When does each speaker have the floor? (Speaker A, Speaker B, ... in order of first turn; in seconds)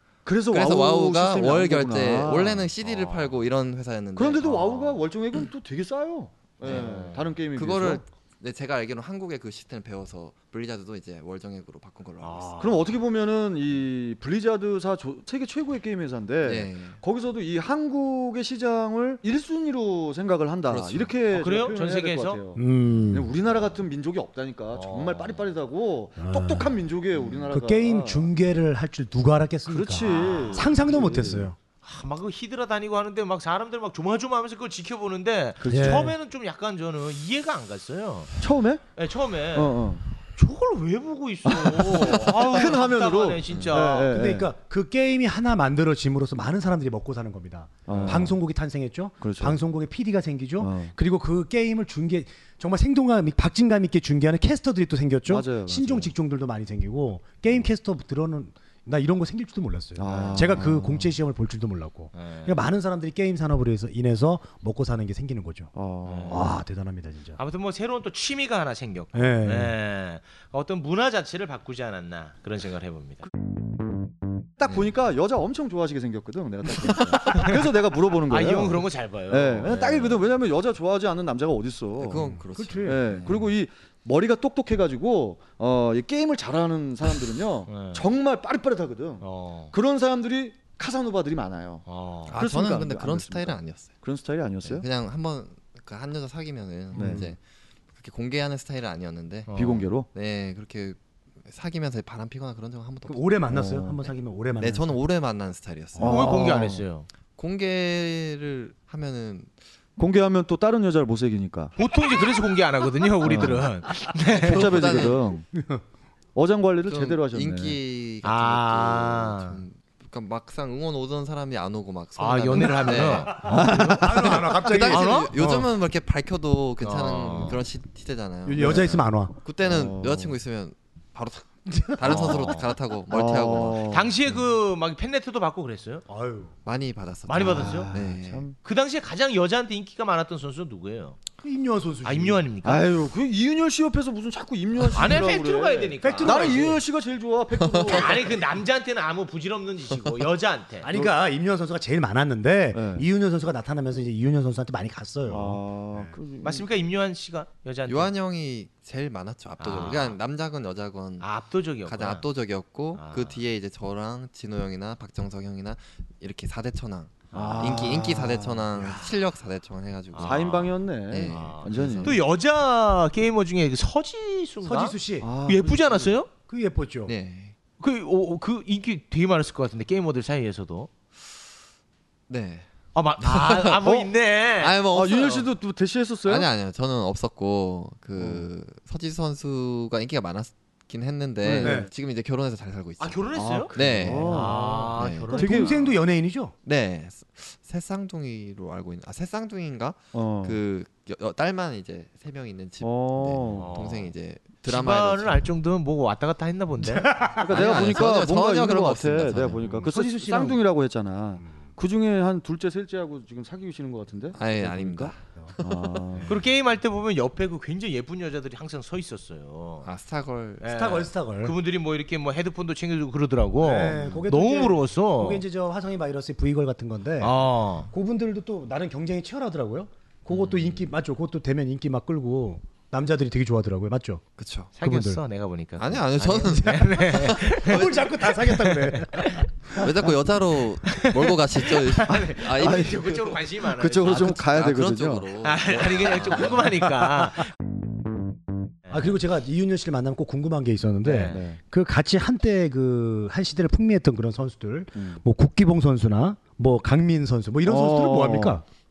Speaker A: 0.2-2.7, 4.2-8.0, 12.6-28.3, 29.7-31.5, 35.6-36.1, 38.4-38.8, 39.5-40.0, 41.5-44.5, 47.9-48.4, 49.2-49.6, 50.6-50.9, 55.3-56.1, 60.0-61.1, 65.7-66.5, 74.6-91.8, 92.4-94.8, 96.9-97.3, 99.5-100.1, 103.5-104.0, 106.0-106.8, 110.0-111.7, 113.2-113.6, 114.3-115.5, 116.3-117.8, 123.4-124.4, 128.6-128.9, 129.6-130.3, 133.1-134.1, 137.4-138.6, 142.6-148.3, 152.7-153.0, 155.2-156.7, 167.3-169.1, 170.2-172.2, 175.2-176.2, 183.8-184.1, 184.9-186.5, 188.2-188.4, 191.4-191.9, 193.3-195.8, 200.1-200.6, 202.8-203.7, 207.4-216.4, 242.1-245.3, 251.3-251.6, 254.9-255.2, 257.6-258.6
Speaker B: 0.5-4.9, 6.6-6.9, 7.5-12.6, 16.4-17.0, 20.7-21.1, 43.5-43.8, 76.8-77.3, 82.0-83.3, 92.3-94.0, 94.6-97.4, 98.0-103.4, 104.6-106.3, 107.4-109.5, 114.3-115.3, 116.8-123.5, 124.2-134.1, 136.6-138.4, 147.6-148.0, 157.9-161.3, 161.8-172.2, 177.1-177.5, 182.3-182.7, 183.2-183.9, 184.6-185.5, 186.2-193.2, 193.7-195.3, 196.6-205.4, 207.4-209.8, 214.3-216.2, 219.8-220.6, 234.4-234.7, 235.8-238.1, 239.7-243.3, 244.0-246.7
Speaker C: 2.8-3.4, 4.4-5.0, 6.6-7.3, 12.2-13.0, 21.3-22.4, 24.7-25.4, 30.0-30.7, 31.8-38.4, 38.9-44.1, 47.9-48.3, 60.0-60.6, 62.1-62.6, 66.0-66.5, 67.4-73.3, 77.3-77.5, 78.3-80.3, 87.7-88.1, 89.2-89.7, 91.8-92.4, 99.5-99.8, 106.0-107.1, 111.8-115.1, 118.2-119.6, 122.2-125.3, 126.8-127.6, 132.1-132.6, 133.9-136.0, 137.3-137.9, 138.6-141.2, 142.0-142.9, 144.9-146.8, 147.8-150.9, 156.4-158.1, 159.6-160.2, 161.2-162.2, 162.9-163.4, 167.3-167.7, 170.1-176.3, 177.8-180.9, 182.9-184.8, 193.0-195.9, 203.6-207.2, 216.3-219.9, 220.6-225.4, 227.2-227.9, 234.8-239.4, 240.9-244.4, 245.4-247.5, 251.0-251.4
Speaker D: 22.6-23.3, 26.2-26.7, 27.5-31.6, 35.6-36.1, 44.0-65.7, 66.3-67.4, 69.1-69.7, 82.5-83.1, 103.0-105.0, 115.5-115.8, 123.3-125.7, 128.4-129.3, 131.7-132.5, 136.1-136.5, 141.4-142.4, 146.0-146.8, 150.8-156.2, 174.6-175.3, 176.5-177.1, 191.6-191.9, 195.3-196.5, 206.8-207.8, 209.5-210.6, 220.6-221.6, 223.6-234.2, 234.8-235.2, 237.5-240.0, 248.9-258.6